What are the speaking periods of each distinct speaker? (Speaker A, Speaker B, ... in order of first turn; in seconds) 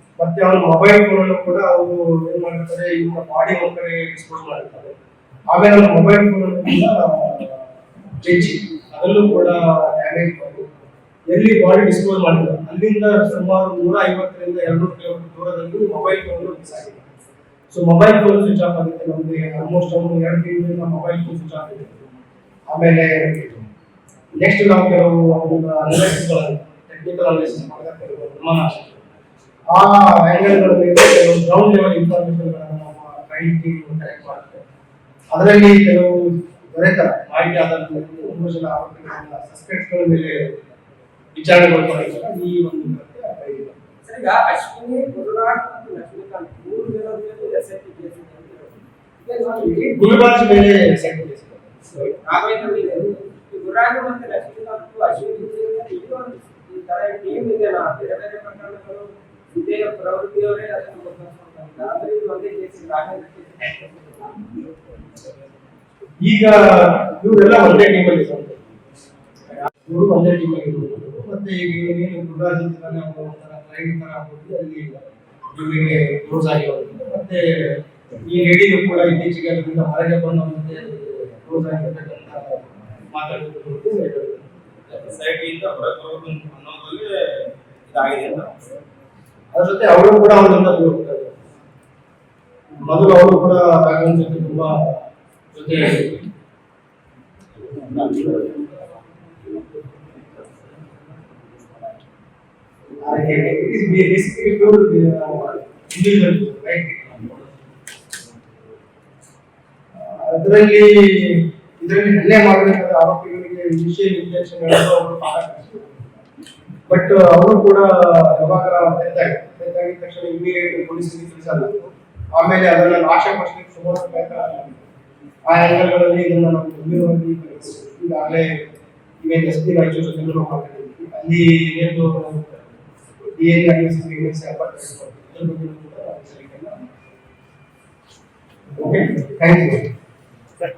Speaker A: 0.2-5.0, 5.5-10.8, 11.3-17.1, 17.7-21.9, 22.7-23.6, 24.4-28.9, 29.7-34.6, 35.3-40.6, 41.4-43.8, 49.8-52.1, 66.2-68.6, 69.9-84.5, 89.5-91.4, 92.8-96.2, 103.0-107.0, 110.0-116.0, 116.9-121.8, 122.3-124.8, 125.5-128.7, 129.2-132.6, 133.4-136.9, 138.8-139.9
Speaker B: 44.0-50.2, 52.1-64.5
Speaker C: 84.9-88.6, 97.8-101.4